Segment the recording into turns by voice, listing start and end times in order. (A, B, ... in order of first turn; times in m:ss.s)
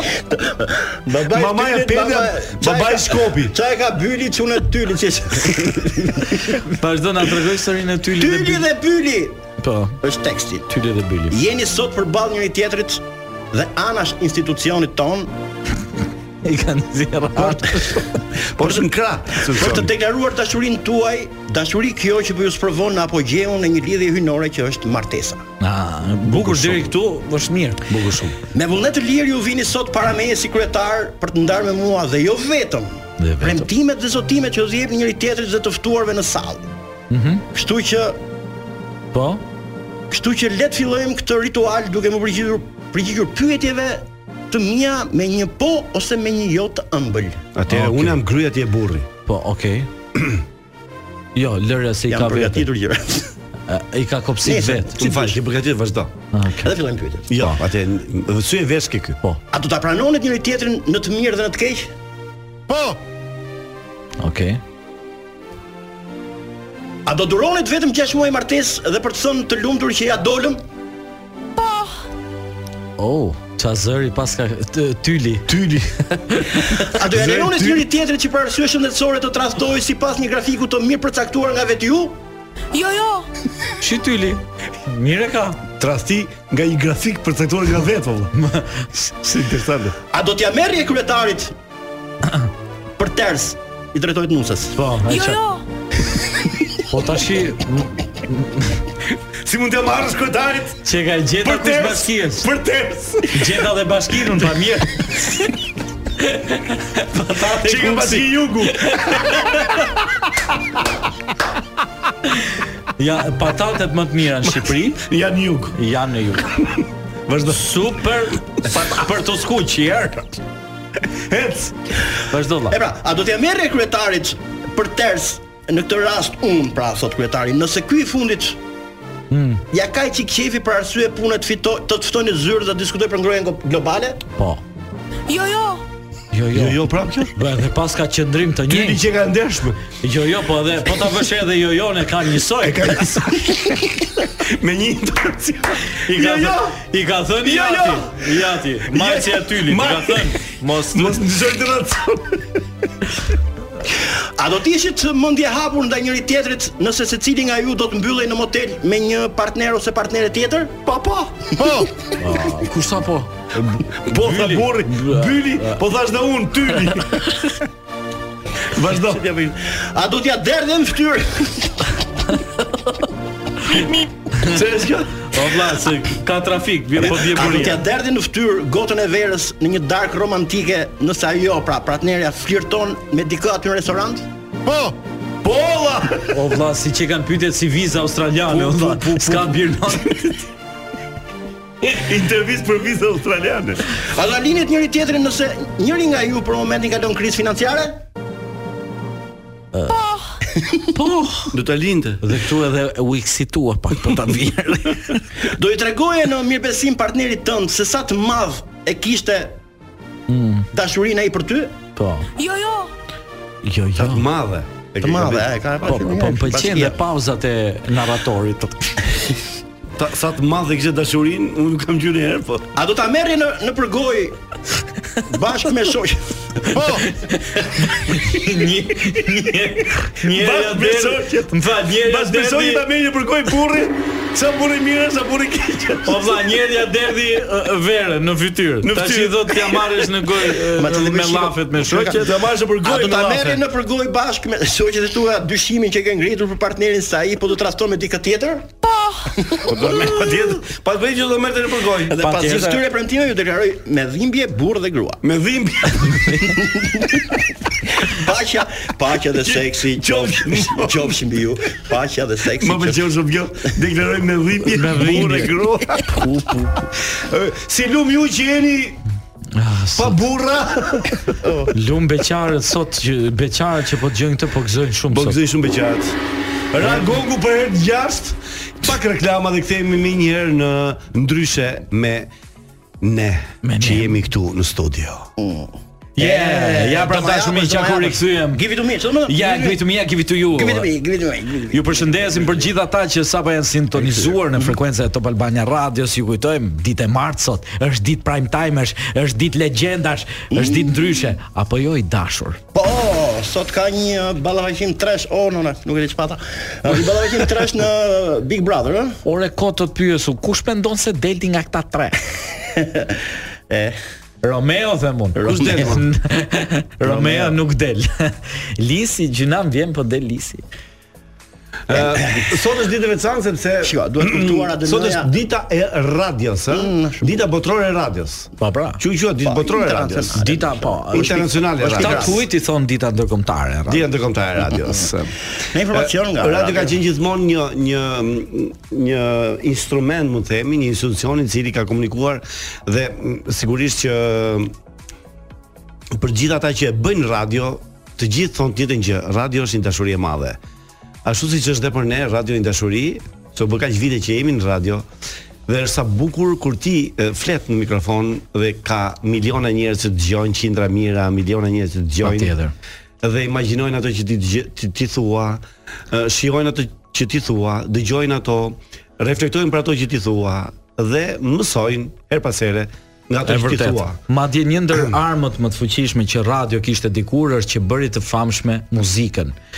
0:00.2-0:06.6 A
0:01.2-0:03.5 B
0:06.7-0:08.6 C
0:08.2-0:09.4 A
0:09.6-0:10.0 C
0:10.0-0:10.7 A
0:10.7-0:11.4 C
0:11.3-0:15.3 A
0:16.4-0:18.2 C
0:18.5-0:19.9 B
0:19.4-0:25.4 A
0:25.6-0:28.0 C
0:26.3-0:26.9 B
0:27.9-0:28.4 B
0:28.5-0:36.7 A
0:33.2-0:33.7 C
0:37.1-0:37.4 C
0:37.5-0:38.2 A
0:39.1-0:39.4 C
0:40.1-0:47.4 A
0:47.5-0:49.1 B
0:47.7-0:48.2 C
0:49.3-0:49.9 C
0:51.3-0:52.7 C
0:52.1-0:53.3 A
0:53.7-0:55.0 C
0:54.4-0:55.4 A
0:55.0-0:56.1 B
0:56.3-0:56.7 C
0:56.6-0:57.3 A
0:57.3-0:59.2 B
0:59.5-1:01.9 A
1:04.2-1:04.6 C
1:07.0-1:10.6 A
1:13.0-1:16.9 C
1:15.5-1:15.9 B
1:16.9-1:22.2 A
1:17.0-1:17.9 B
1:22.7-1:23.3 D
1:23.8-1:25.6 C
1:25.8-1:28.3 B
1:28.3-1:29.1 C
1:29.2-1:30.0 B
1:30.1-1:31.5 A
1:33.0-1:34.8 A
1:34.7-1:35.4 C
1:35.1-1:35.6 D
1:36.9-1:38.8 C
1:39.4-1:40.8 B
1:40.8-1:42.5 C
1:41.4-1:43.6 B
1:43.3-1:45.5 C
1:46.2-1:49.9 C
1:47.3-1:49.4 B
1:52.3-1:55.0 C
1:54.4-1:55.8 B
1:55.7-1:56.6 C
1:57.3-1:57.6 B
1:57.4-2:00.4 C
2:01.3-2:01.7 B
2:02.3-2:02.8 C
2:02.7-2:08.6 A
2:09.3-2:09.6 C
2:09.7-2:14.2 A
2:14.4-2:14.6 C
2:15.3-2:15.8 D
2:16.3-2:16.8 C
2:16.5-2:17.3 B
2:17.3-2:19.0 C
2:18.7-2:19.8 B
2:20.0-2:23.2 C
2:22.6-2:23.8 B
2:24.4-2:26.8 B
2:26.0-2:31.2 C
2:27.4-2:28.3 B
2:28.8-2:30.4 B
2:30.9-2:32.4 B
2:33.9-2:40.8 A
2:40.8-2:41.7 B
2:41.6-2:41.9 A
2:42.2-2:45.8 C
2:43.8-2:47.2 B
2:48.7-2:49.2 B
2:49.1-2:51.9 A
2:54.4-2:55.4 B
2:55.3-2:57.8 C
2:57.0-3:04.2 A
3:04.6-3:06.4 B
3:06.2-3:10.2 C
3:08.5-3:10.2 B
3:11.8-3:13.8 B
3:14.0-3:18.0 A
3:19.7-3:20.0 C
3:20.5-3:20.8 A
3:20.9-3:21.5 C
3:21.5-3:22.2 B
3:22.2-3:25.2 C
3:25.4-3:29.6 A
3:30.3-3:30.7 C
3:30.7-3:31.7 A
3:32.0-3:32.3 C
3:32.4-3:32.9 D
3:33.6-3:34.2 C
3:34.0-3:35.6 B
3:35.0-3:37.0 A
3:35.8-3:39.0 C
3:40.0-3:42.7 B
3:42.8-3:44.4 A
3:45.2-3:46.8 A
3:46.8-3:52.9 C
3:50.2-3:56.2 B
3:56.0-4:02.3 C
3:58.8-4:00.1 B
4:00.7-4:01.6 A
4:01.8-4:03.6 B
4:02.8-4:08.7 A
4:09.3-4:10.1 A
4:09.6-4:12.2 B
4:12.1-4:15.2 A
4:12.2-4:12.8 C
4:15.2-4:16.4 B
4:16.0-4:16.6 C
4:16.5-4:17.2 A
4:18.0-4:23.0 A
4:19.4-4:21.1 B
4:22.6-4:26.2 B
4:24.6-4:25.5 C
4:26.1-4:26.7 C
4:27.0-4:29.0 B
4:29.5-4:30.2 C
4:29.9-4:31.4 B
4:31.4-4:31.7 A
4:31.7-4:35.4 C
4:35.1-4:36.2 B
4:36.7-4:42.3 B
4:43.0-4:45.3 B
4:43.6-4:44.2 C
4:45.4-4:49.8 A
4:46.2-4:48.6 C
4:49.2-4:50.9 C
4:50.5-4:52.6 A
4:51.7-5:02.6 C
4:53.9-4:54.8 A
5:00.5-5:01.2 A
5:02.7-5:09.2 A
5:09.2-5:12.2 C
5:12.8-5:13.2 A
5:13.7-5:14.0 A
5:14.4-5:20.6 C
5:15.4-5:15.9 A
5:15.4-5:16.0 B
5:17.0-5:17.6 A
5:21.9-5:30.4 B
5:21.9-5:22.5 A
5:23.8-5:25.3 A
5:26.7-5:27.4 A
5:28.6-5:29.0 C
5:29.4-5:32.4 A
5:30.4-5:34.1 C
5:31.1-5:32.4 B
5:33.9-5:35.3 B
5:35.7-5:37.0 A
5:35.9-5:44.7 B
5:46.1-5:50.6 B
5:51.2-5:55.1 B
5:55.7-6:02.5 B
6:02.2-6:02.7 C
6:03.2-6:14.2 B
6:13.4-6:19.5 C